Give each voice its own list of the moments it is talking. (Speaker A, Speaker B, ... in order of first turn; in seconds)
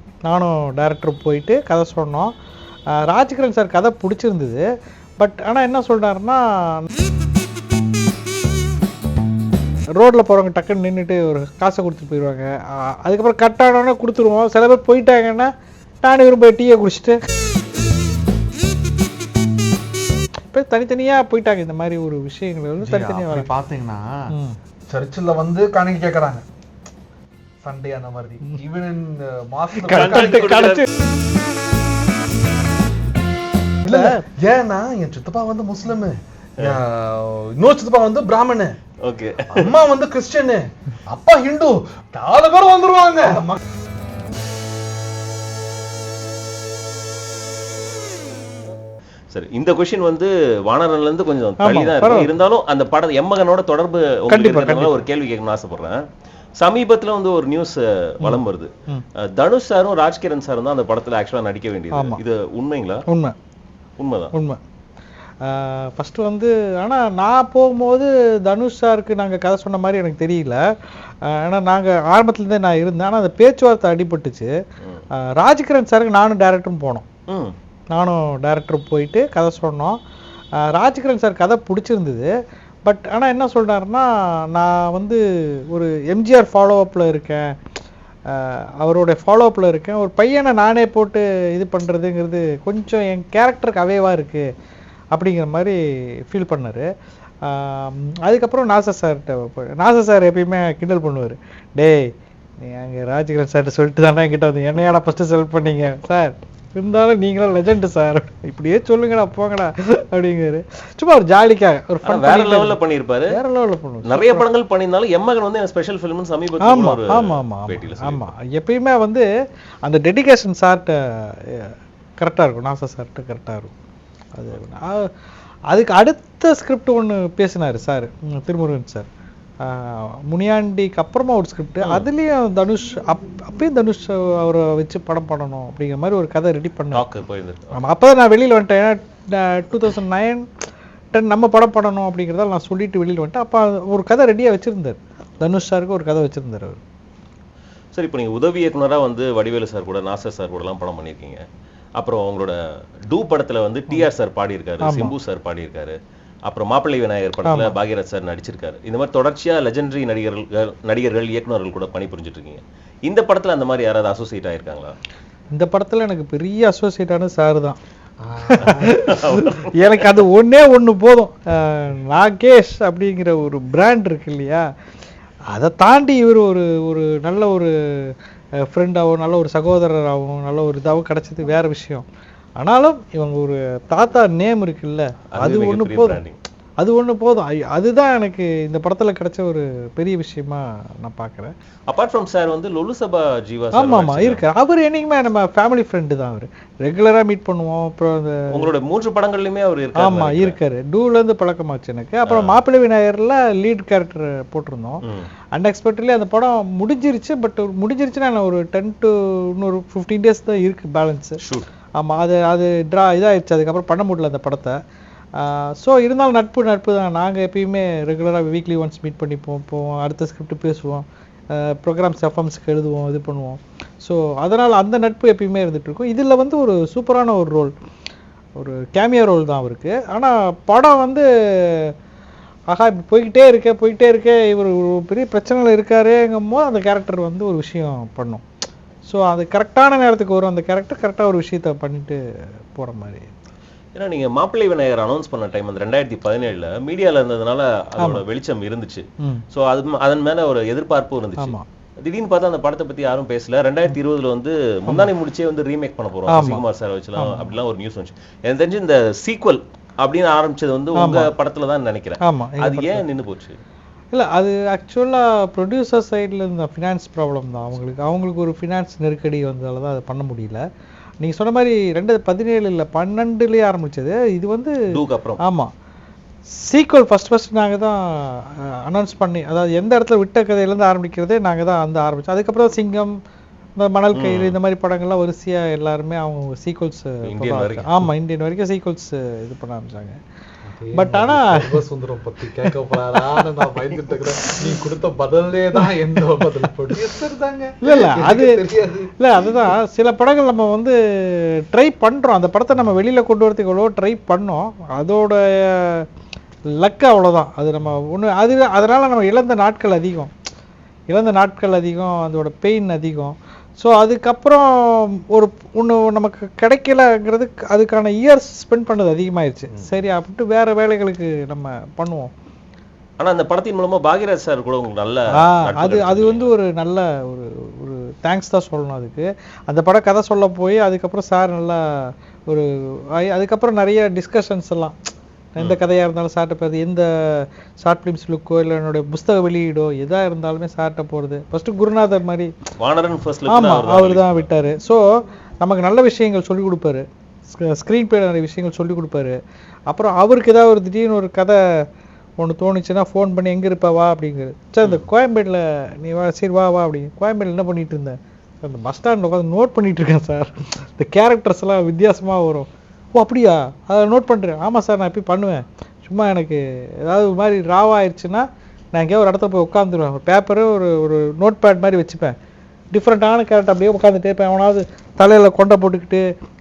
Speaker A: 0.3-2.3, 3.0-4.6, 5.2-6.8, 10.0-15.5, 16.0-17.2, 20.5-23.5, 29.8-30.9, 33.9-34.2, 51.6-52.3, 54.3-55.0, 58.2-59.0, 61.9-62.2, 63.1-63.3, 64.3-64.6, 65.4-70.6, 71.2-74.5, 75.4-77.1, 77.9-80.0, 80.6-82.3, 82.8-87.5, 88.3-94.4, 95.1-95.8, 96.3-96.8, 97.4-112.8, 113.3-114.4, 116.6-119.2, 119.8-120.9, 121.5-123.7, 124.3-125.1, 125.7-129.1, 129.6-137.0, 137.7-140.4, 141.1-146.8, 154.8-155.1, 157.4-157.7, 165.5-167.8, 168.5-174.6, 175.5-178.1, 178.7-182.0, 182.6-186.2, 186.8-191.5, 193.7-198.7, 200.0-205.0, 205.6-211.4, 212.0-214.8, 215.4-227.7, 228.6-231.9, 232.7-238.4, 239.0-242.2, 242.7-243.3, 251.4-251.7, 256.3-256.6, 257.2-257.5, 260.9-261.3, 262.2-263.0, 264.1-270.6, 271.2-274.8, 275.4-275.7, 276.6-283.1, 283.8-290.2, 291.0-291.8, 293.1-293.8, 294.4-294.8, 295.8-296.7, 297.8-298.7, 299.2-306.1, 306.8-310.3, 311.1-322.3, 325.4-334.9, 335.6-342.5, 343.5-345.0, 345.6-349.4, 349.9-351.6, 352.4-372.3, 372.9-376.2
Speaker B: 22.8-24.2, 24.9-26.4, 27.6-30.5, 33.8-38.8, 39.5-43.6, 168.2-169.1, 290.7-299.5
Speaker C: 29.9-30.9, 39.0-39.7, 49.3-56.0, 56.6-58.7, 59.2-63.0, 64.0-64.3, 112.0-113.3, 114.1-118.3, 131.8-132.1, 136.9-137.8, 147.9-151.4, 152.0-152.6, 153.1-156.0, 156.5-164.9, 168.6-170.1, 185.3-186.4, 191.9-194.4, 198.5-200.6, 202.3-202.6, 211.4-211.7, 243.9-263.6, 274.9-275.4, 284.1-284.6, 287.2-288.1, 319.7-320.0, 323.2-326.5, 342.8-344.5